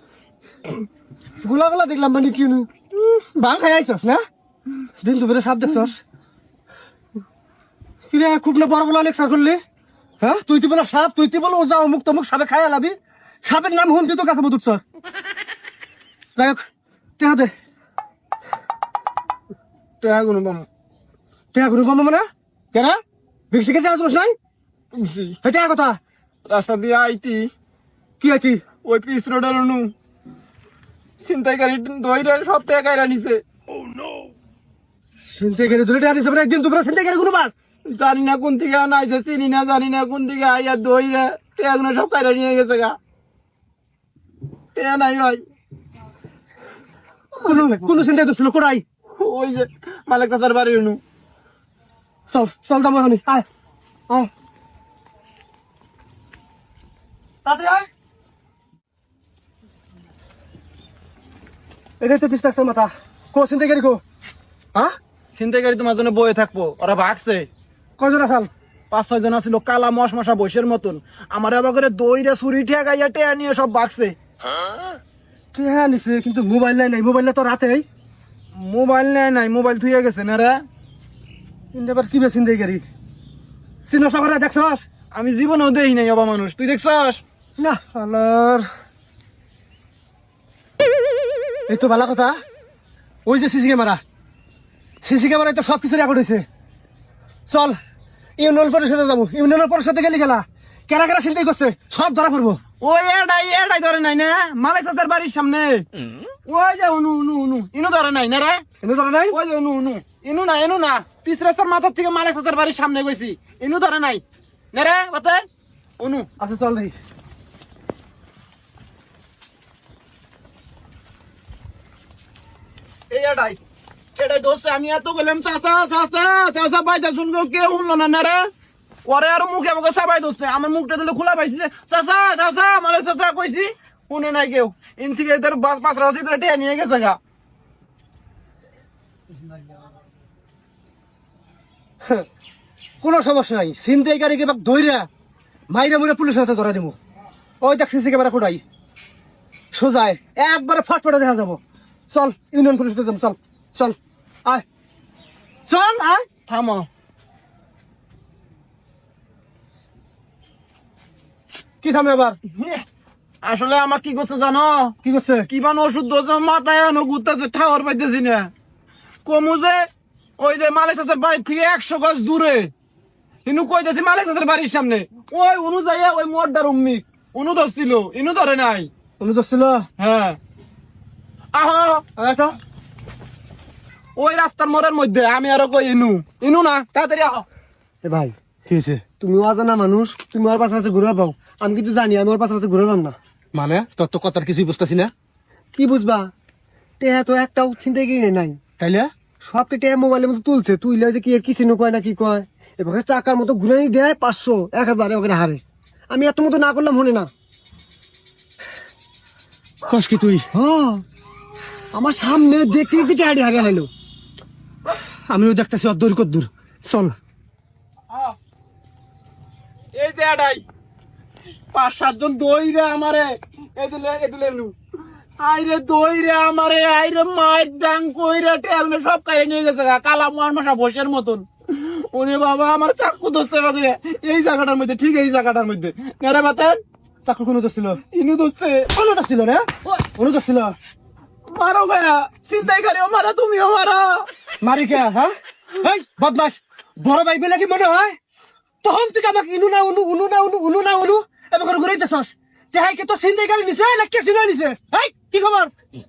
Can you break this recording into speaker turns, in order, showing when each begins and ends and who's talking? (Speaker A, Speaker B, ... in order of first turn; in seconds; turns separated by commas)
Speaker A: 1.4-2.7, Speaker B: 2.9-4.2, Speaker B: 5.0-6.0, Speaker B: 8.1-9.6, Speaker B: 10.2-14.8, Speaker B: 16.4-16.6, Speaker B: 17.2-17.5, Speaker C: 20.0-20.6, Speaker B: 21.5-23.0, Speaker B: 23.5-24.4, Speaker C: 24.9-25.4, Speaker B: 25.4-26.0, Speaker C: 26.5-27.5, Speaker B: 28.3-28.6, Speaker C: 28.8-29.9, Speaker C: 31.2-33.4, Speaker B: 35.2-37.5, Speaker C: 37.9-43.0, Speaker C: 44.8-45.4, Speaker B: 47.3-48.8, Speaker C: 49.2-51.0, Speaker B: 52.3-53.5, Speaker B: 57.4-57.9, Speaker B: 62.0-64.0, Speaker C: 65.3-67.5, Speaker B: 68.0-68.5, Speaker C: 68.9-74.2, Speaker B: 75.5-77.8, Speaker C: 78.5-80.6, Speaker B: 81.7-82.8, Speaker B: 83.9-84.8, Speaker C: 85.1-87.2, Speaker B: 87.9-88.7, Speaker B: 91.7-92.4, Speaker B: 93.2-94.0, Speaker B: 95.0-96.4, Speaker B: 97.5-97.8, Speaker B: 98.4-102.6, Speaker C: 102.8-105.8, Speaker C: 106.5-108.6, Speaker B: 109.0-109.3, Speaker C: 109.3-115.5, Speaker C: 116.0-116.3, Speaker B: 116.4-116.9, Speaker C: 123.1-123.6, Speaker C: 124.2-128.4, Speaker C: 129.1-137.2, Speaker B: 143.0-145.1, Speaker B: 145.7-146.9, Speaker B: 147.6-148.6, Speaker B: 149.7-151.6, Speaker B: 152.1-154.6, Speaker B: 155.7-156.2, Speaker C: 156.5-156.9, Speaker B: 161.8-162.3, Speaker C: 162.6-162.8, Speaker C: 163.4-164.9, Speaker C: 165.5-168.5, Speaker C: 169.2-169.9, Speaker C: 170.4-172.7, Speaker C: 173.4-178.9, Speaker B: 179.2-179.9, Speaker C: 180.0-180.4, Speaker C: 181.5-182.0, Speaker B: 182.2-182.6, Speaker C: 184.2-187.4, Speaker A: 188.0-188.3, Speaker B: 188.7-189.0, Speaker A: 189.2-193.2, Speaker B: 193.5-195.1, Speaker A: 195.7-196.3, Speaker A: 197.0-198.6, Speaker B: 198.8-199.1, Speaker A: 199.5-207.3, Speaker B: 209.8-210.4, Speaker A: 210.5-211.0, Speaker A: 211.9-213.9, Speaker B: 215.3-217.2, Speaker C: 219.9-220.6, Speaker C: 221.7-224.7, Speaker C: 225.4-236.8, Speaker B: 237.2-238.0, Speaker C: 238.1-238.9, Speaker B: 238.9-240.8, Speaker C: 241.5-244.2, Speaker B: 244.6-248.2, Speaker B: 248.8-255.7